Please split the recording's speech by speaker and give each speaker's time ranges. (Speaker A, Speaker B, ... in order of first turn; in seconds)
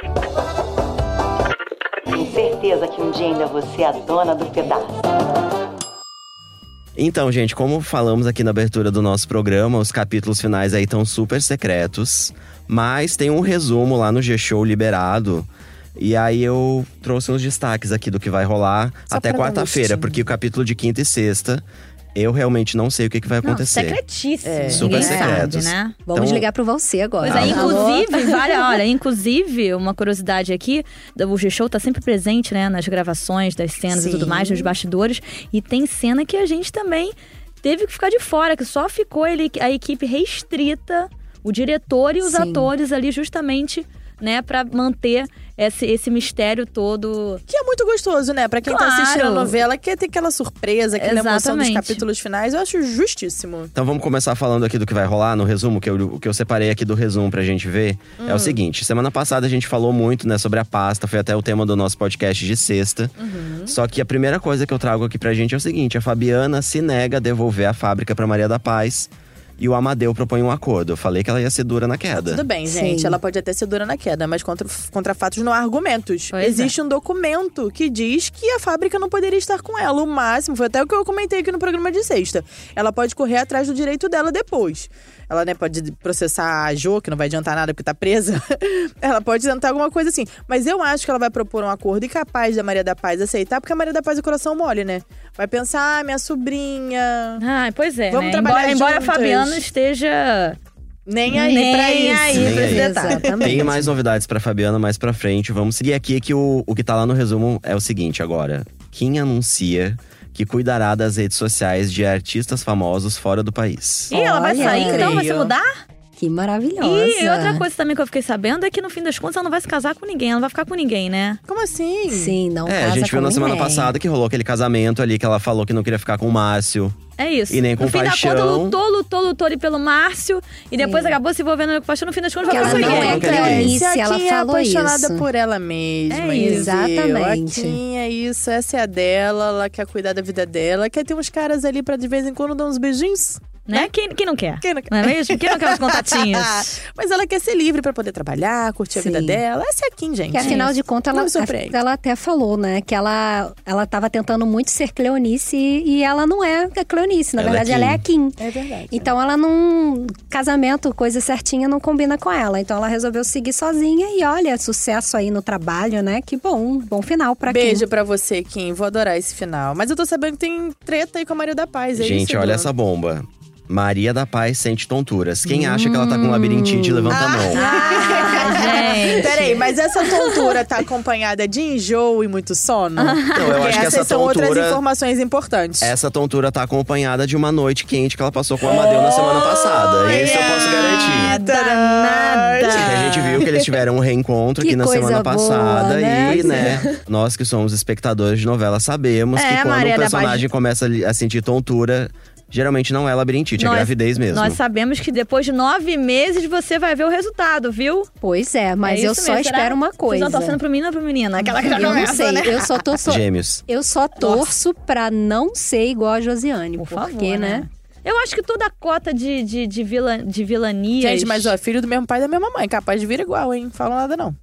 Speaker A: 2.1-5.0
Speaker B: 7.0-24.0, 24.7-26.5, 27.2-27.8, 53.7-63.1, 63.7-72.4, 102.3-102.9, 103.4-114.2, 122.7-127.0, 127.5-128.8, 132.5-133.8, 157.4-158.0, 171.9-177.6, 183.3-184.8, 185.8-191.3, 192.8-204.6, 213.0-213.6
Speaker C: 19.1-20.2, 24.4-25.1, 33.9-34.7, 47.5-53.7, 58.2-58.6, 63.2-63.8, 72.2-97.4, 98.1-99.6, 101.1-103.7, 114.5-115.5, 121.5-122.4, 132.6-143.9, 144.6-151.8, 158.4-159.1, 167.4-172.7, 177.1-185.9, 188.6-193.7, 196.3-196.8, 214.2-214.5, 221.0-224.3
Speaker D: 23.4-26.0, 27.2-47.4, 48.6-49.5, 51.0-52.0, 76.3-76.7, 97.4-100.6, 101.3-103.3, 114.1-115.7, 116.8-121.4, 127.2-133.7, 136.1-136.7, 143.7-146.8, 150.4-150.7, 177.5-179.6, 183.0-183.7, 188.7-193.5, 199.3-200.4, 203.6-208.1, 208.8-212.8, 216.8-221.5
Speaker E: 24.7-28.6, 42.2-42.7, 72.7-73.2, 102.5-103.9, 114.1-115.2, 116.2-117.7, 122.1-124.0, 130.8-131.2, 132.5-135.3, 136.3-137.8, 148.9-149.4, 150.3-158.4, 158.9-167.9, 175.5-179.4, 180.1-180.4, 194.6-197.0, 208.2-210.6, 211.6-217.7